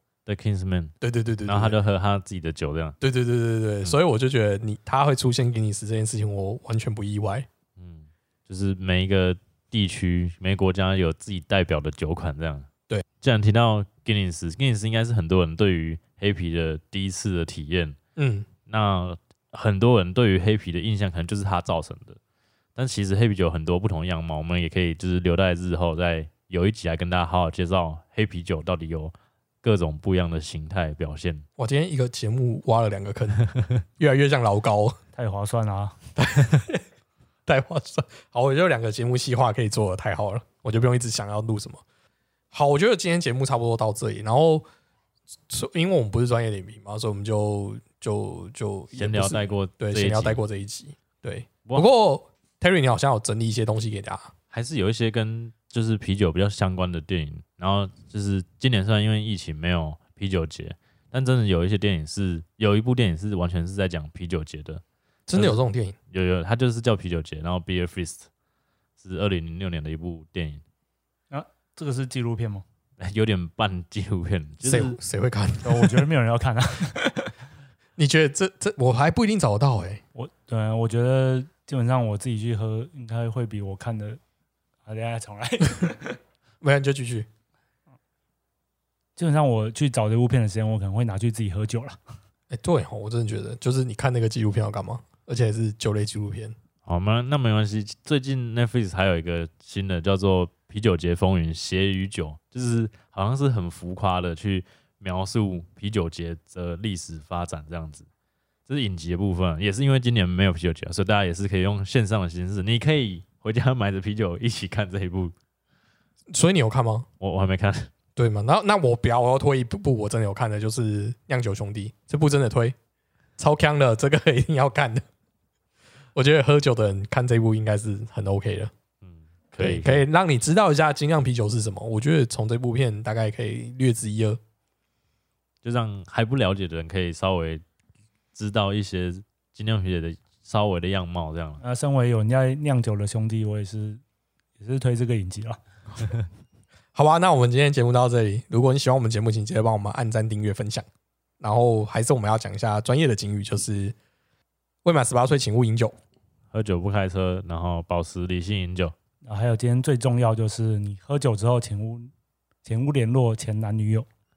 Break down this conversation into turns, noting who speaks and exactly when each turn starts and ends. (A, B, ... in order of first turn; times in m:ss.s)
0:00.2-0:00.9 A
0:01.0-0:01.8 B
0:01.4-0:03.0 A
0:03.0-0:07.5 B
0:07.8-0:12.7 A
0:13.2-0:18.0 A
0:18.2-0:18.5 B
0:18.7-0:22.2 A
0:22.8-0:31.4 A
0:31.6-0:33.4 B
0:34.0-0:35.0 B
0:35.1-0:36.0 C
0:36.2-0:36.8 B
0:37.4-0:41.8 B
0:42.5-0:44.6 B
0:45.5-0:54.3 B
0:48.9-0:50.4 A
0:54.5-1:04.8 A
1:05.3-1:05.9 B
1:05.3-1:05.6 A
1:06.1-1:08.3 A
1:09.0-1:10.6 A
1:11.3-1:12.6 C
1:13.0-1:15.0 A
1:14.6-1:16.0 B
1:15.6-1:17.3 C
1:18.0-1:20.0 B
1:20.1-1:24.2 C
1:24.8-1:26.2 C
1:26.6-1:27.3 B
1:29.2-1:32.0 C
1:32.5-1:36.5 B
1:36.8-1:48.1 A
1:48.7-1:55.3 A
1:56.3-1:57.1 B
1:57.2-1:57.9 A
1:58.2-2:02.8 B
2:03.4-2:05.0 B
2:06.1-2:08.7 B
2:09.0-2:10.0 A
2:09.6-2:14.4 B
2:15.6-2:17.6 A
2:18.3-2:21.6 A
2:21.6-2:24.0 C
2:24.6-2:26.1 C
2:26.9-2:30.9 B
2:31.4-2:34.0 B
2:34.8-2:35.9 B
2:36.5-2:38.9 A
2:39.2-2:42.1 C
2:42.6-2:44.1 C